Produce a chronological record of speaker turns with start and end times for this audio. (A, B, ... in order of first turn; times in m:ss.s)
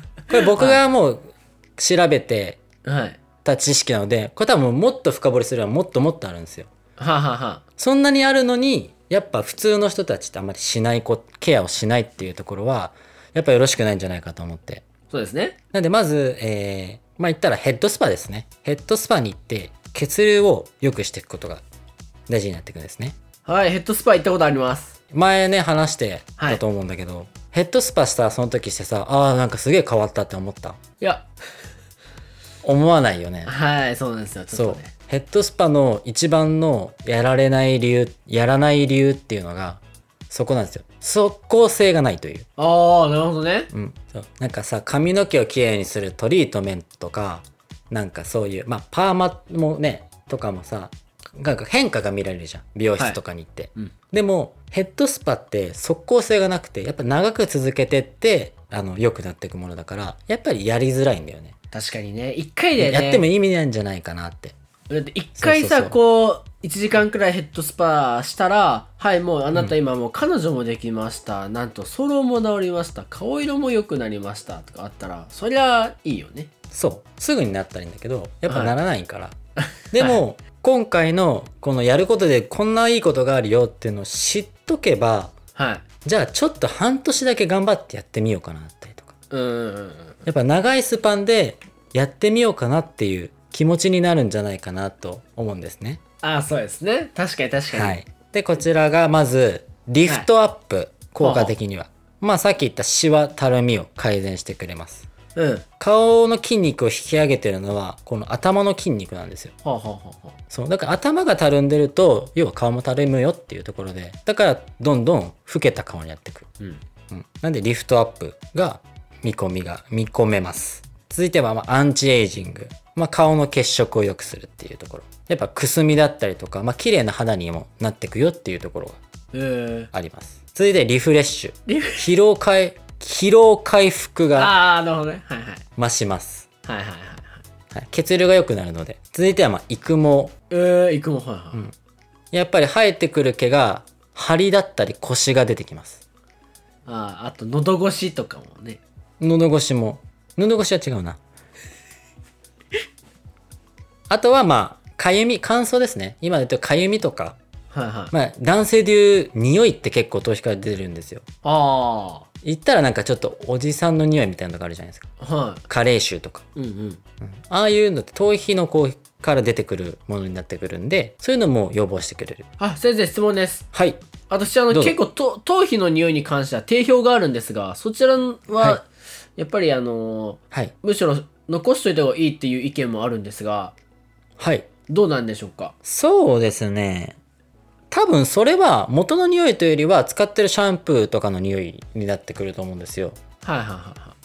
0:00.3-0:02.6 A
0:00.5-0:00.8 B
0:02.8-0:03.2 B
0:03.4-0:06.7 A
0:07.0-0:07.6 B
0:07.8-0:14.8 A
0:15.1-0:15.6 B
0:15.7-0:21.6 A
0:22.3-0:23.1 A
0:23.4-0:24.9 B
0:25.1-0:30.8 A
0:31.0-0:31.2 B
0:32.6-0:33.5 A
0:33.4-0:34.9 B
0:34.5-0:42.4 A
0:42.6-0:43.7 B
0:43.7-1:01.5 A
1:01.7-1:03.2 B
1:02.8-1:04.5 A
1:04.9-1:16.5 B
1:05.4-1:06.0 A
1:16.7-1:19.3 A
1:18.5-1:18.7 B
1:19.9-1:25.3 A
1:19.9-1:20.2 B
1:25.6-1:25.8 B
1:26.0-1:29.1 A
1:29.3-1:30.2 B
1:30.2-1:36.0 A
1:36.2-1:38.0 B
1:37.7-1:45.1 A
1:41.2-1:41.5 B
1:45.3-1:45.6 B
1:45.8-1:49.5 A
1:49.6-1:50.4 B
1:50.5-1:56.5 A
1:57.1-2:09.0 A
2:09.3-2:09.9 B
2:09.9-2:14.5 A
2:11.6-2:12.0 B
2:14.4-2:15.6 B
2:15.8-2:16.4 A
2:16.6-2:17.4 B
2:17.7-2:20.3 A
2:20.5-2:21.6 B
2:22.3-2:26.0 A
2:26.8-2:28.8 B
2:29.2-2:31.2 A
2:34.1-2:37.4 A
2:37.7-2:38.1 B
2:38.1-2:41.2 A
2:41.4-2:42.3 B
2:42.4-2:45.1 A
2:45.2-2:45.6 B
2:45.7-2:46.4 A
2:46.6-2:47.0 B
2:47.2-2:52.4 A
2:52.6-2:53.6 B
2:53.7-2:54.0 A
2:54.3-2:58.8 B
2:54.7-2:55.0 A
2:59.4-3:03.7 B
3:04.4-3:04.7 A
3:04.9-3:05.7 B
3:05.8-3:07.2 A
3:07.9-3:13.2 A
3:13.4-3:14.1 B